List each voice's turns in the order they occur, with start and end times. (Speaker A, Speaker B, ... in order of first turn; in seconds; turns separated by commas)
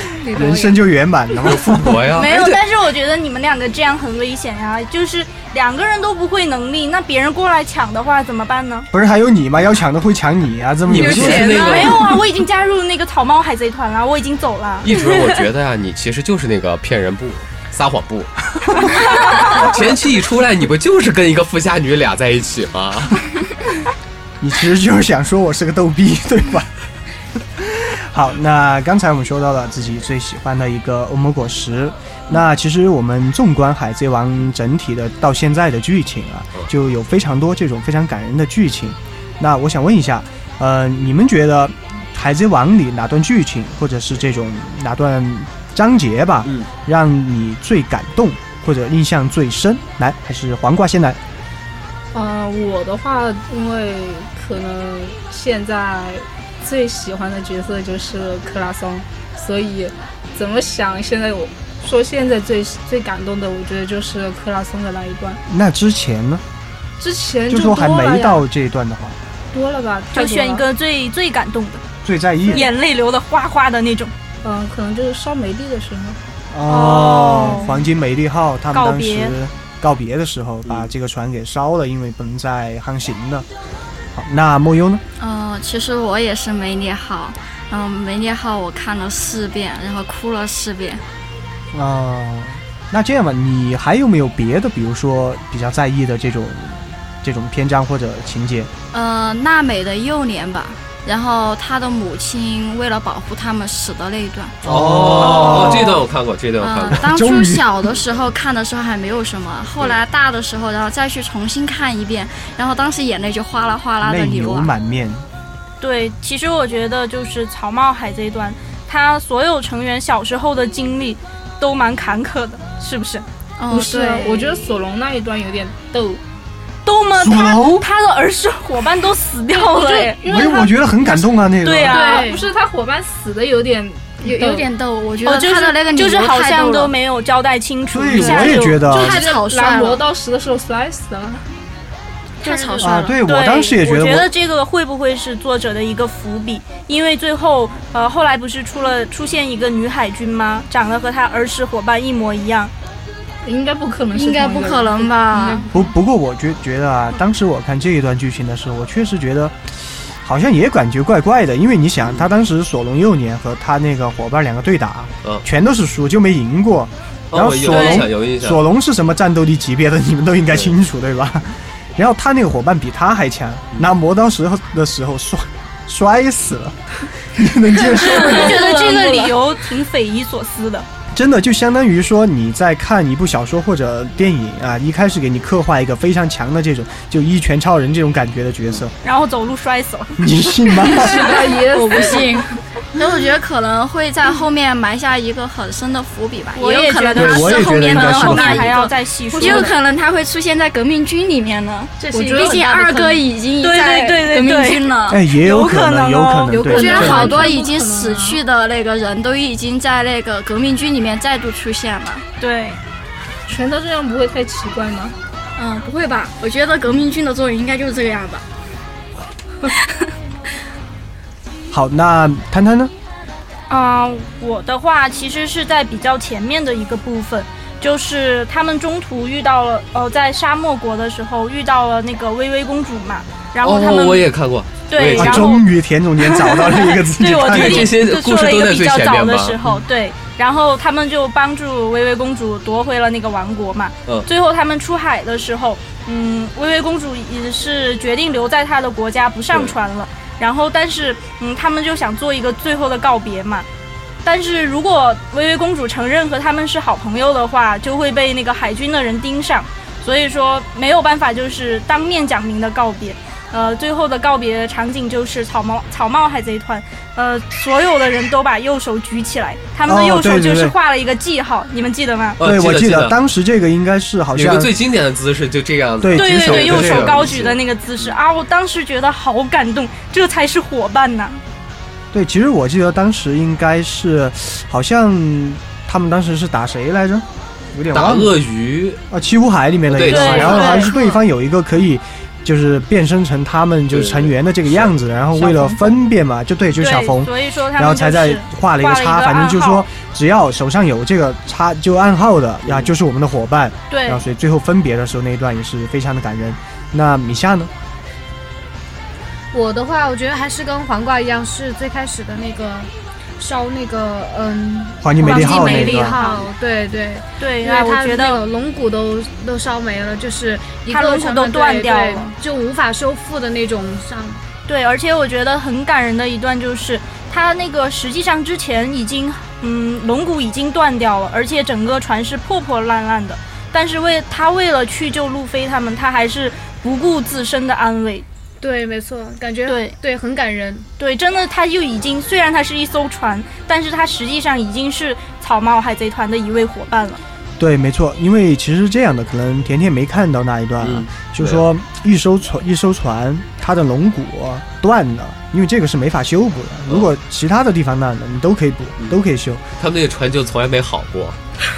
Speaker A: 0.2-0.8, Speaker B: 0.3-2.2, Speaker C: 1.4-2.6, Speaker D: 2.1-8.9, Speaker B: 8.9-11.6, Speaker C: 10.8-12.1, Speaker A: 10.9-12.0, Speaker D: 11.6-15.2, Speaker C: 14.8-23.2, Speaker B: 24.4-26.7, Speaker B: 27.6-51.2, Speaker E: 52.1-65.4, Speaker B: 65.5-66.4, Speaker E: 67.0-68.5, Speaker B: 67.5-69.2, Speaker E: 69.5-70.6, Speaker D: 70.1-71.8, Speaker B: 72.0-72.7, Speaker D: 72.5-74.1, Speaker E: 74.4-76.2, Speaker B: 76.5-83.5, Speaker D: 76.7-77.7, Speaker D: 78.7-79.3, Speaker B: 84.1-85.0, Speaker F: 85.2-91.0, Speaker B: 91.7-98.7, Speaker F: 98.9-104.6, Speaker B: 104.6-106.0, Speaker C: 104.6-107.0, Speaker F: 105.2-106.0, Speaker F: 106.6-114.7, Speaker B: 106.9-107.7, Speaker B: 114.0-115.2, Speaker D: 115.8-123.2, Speaker F: 123.6-124.7, Speaker E: 123.7-126.2, Speaker D: 126.8-130.2, Speaker B: 127.1-127.8, Speaker E: 129.5-131.2, Speaker B: 130.2-132.1, Speaker D: 131.6-132.3, Speaker E: 131.9-134.7, Speaker A: 131.9-132.4, Speaker F: 134.2-136.9, Speaker D: 135.2-139.2, Speaker B: 137.9-139.2, Speaker F: 138.1-140.0, Speaker E: 139.0-141.4, Speaker F: 142.4-143.2, Speaker D: 142.4-152.7, Speaker B: 142.8-144.3, Speaker E: 153.4-155.7, Speaker F: 154.1-155.7, Speaker B: 155.7-178.7, Speaker C: 167.3-168.6, Speaker D: 167.7-168.0, Speaker D: 177.9-180.9, Speaker F: 178.7-179.3, Speaker B: 181.1-188.9, Speaker D: 189.0-190.2, Speaker B: 190.2-191.3, Speaker E: 190.9-192.4, Speaker F: 190.9-205.2, Speaker D: 196.5-199.7, Speaker B: 197.1-198.8, Speaker E: 199.4-199.7, Speaker A: 202.0-203.2, Speaker E: 202.1-202.7, Speaker D: 203.6-207.1, Speaker B: 205.1-207.4, Speaker E: 206.5-208.4, Speaker A: 206.7-207.3, Speaker F: 206.8-212.2, Speaker D: 212.4-212.8, Speaker E: 213.5-215.2, Speaker F: 215.6-218.4, Speaker B: 221.7-222.9, Speaker D: 223.7-234.3, Speaker C: 233.6-235.6, Speaker D: 234.9-235.7, Speaker B: 235.1-237.9, Speaker D: 236.2-253.7, Speaker C: 237.4-239.7, Speaker D: 254.2-272.4, Speaker B: 269.8-270.8, Speaker C: 272.4-273.1, Speaker B: 272.4-274.7, Speaker C: 274.3-278.1, Speaker B: 276.0-277.3, Speaker D: 276.1-281.4, Speaker B: 282.1-288.3, Speaker C: 287.9-289.0, Speaker B: 289.1-307.7, Speaker C: 289.9-290.8, Speaker D: 290.1-290.9, Speaker C: 293.9-294.9, Speaker D: 296.8-299.9, Speaker C: 302.6-302.9, Speaker D: 303.9-304.2, Speaker A: 309.5-324.4, Speaker B: 315.0-316.2, Speaker D: 315.2-316.4, Speaker D: 317.4-318.4, Speaker D: 320.9-322.3, Speaker D: 324.7-338.2, Speaker A: 338.6-340.9, Speaker D: 339.6-339.9, Speaker D: 341.0-347.2, Speaker B: 347.6-359.6, Speaker C: 350.8-351.7, Speaker C: 359.8-361.4